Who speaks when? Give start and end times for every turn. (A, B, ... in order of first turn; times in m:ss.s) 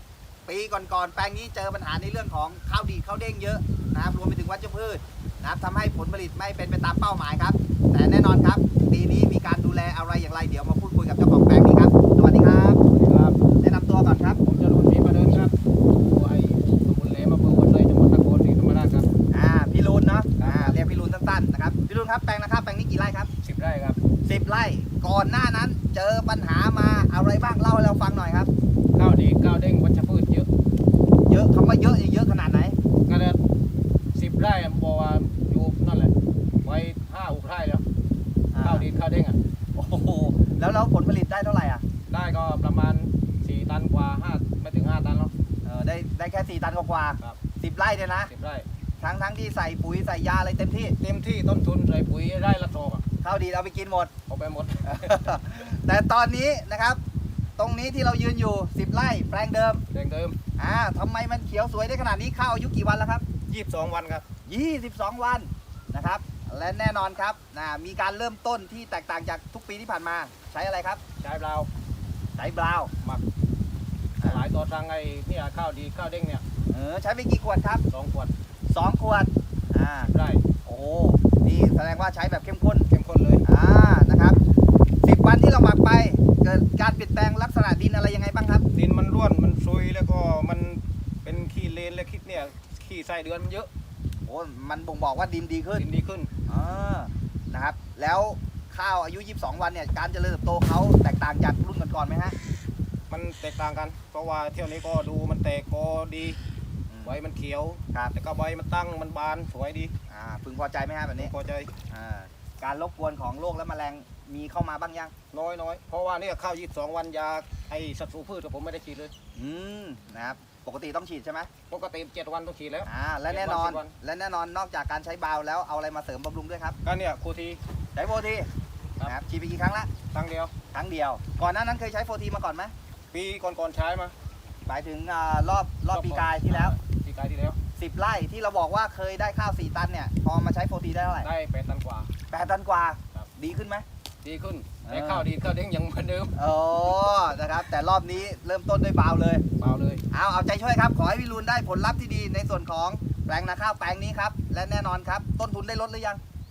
0:00.4-0:12.8 A
0:12.9-0:13.4 B
0:13.6-0:14.4 A
0:14.4-0:19.1 B
0:19.3-0:23.3 A
0:20.4-0:20.8 B
0:23.4-0:24.0 B
0:24.2-0:28.5 A
0:28.9-0:30.5 B
0:31.3-0:32.8 A
0:33.1-0:33.4 B
0:34.1-0:37.8 B
0:38.5-0:38.9 A
0:38.6-0:39.4 B
0:39.8-0:41.8 A
0:42.1-0:45.3 B
0:45.6-0:48.3 A
0:48.3-0:48.6 B
0:49.0-0:51.0 A
0:51.0-0:53.0 B
0:53.2-0:54.1 A
0:54.3-0:55.3 B
0:54.8-0:57.0 A
0:57.6-0:59.8 A
0:59.9-1:00.4 B
1:00.6-1:03.2 A
1:03.5-1:04.2 B
1:04.5-1:11.0 A
1:11.2-1:11.7 B
1:12.4-1:12.9 A
1:14.2-1:14.4 A
1:14.2-1:16.4 B
1:16.7-1:17.8 A
1:17.9-1:18.3 B
1:18.7-1:20.1 A
1:20.1-1:20.4 B
1:20.6-1:22.9 A
1:22.9-1:23.4 B
1:23.4-1:24.4 A
1:25.0-1:28.6 A
1:28.7-1:33.7 B
1:34.2-1:35.8 A
1:35.8-1:36.3 B
1:36.5-1:42.3 A
1:43.1-1:46.4 B
1:46.9-1:47.2 A
1:47.0-1:49.9 B
1:50.1-1:51.3 A
1:51.2-1:51.7 B
1:51.9-1:55.1 A
1:55.3-1:59.1 B
1:59.3-2:01.5 A
2:01.7-2:03.9 B
2:02.8-2:06.8 A
2:06.8-2:07.6 B
2:07.9-2:08.5 A
2:09.0-2:09.9 A
2:10.1-2:10.5 B
2:10.7-2:12.7 A
2:13.1-2:14.1 B
2:14.6-2:16.7 A
2:15.9-2:17.6 B
2:17.8-2:21.3 A
2:21.2-2:22.1 B
2:22.3-2:23.8 A
2:24.2-2:26.4 B
2:24.8-2:25.3 A
2:26.4-2:29.4 A
2:29.6-2:30.0 B
2:30.1-2:36.2 A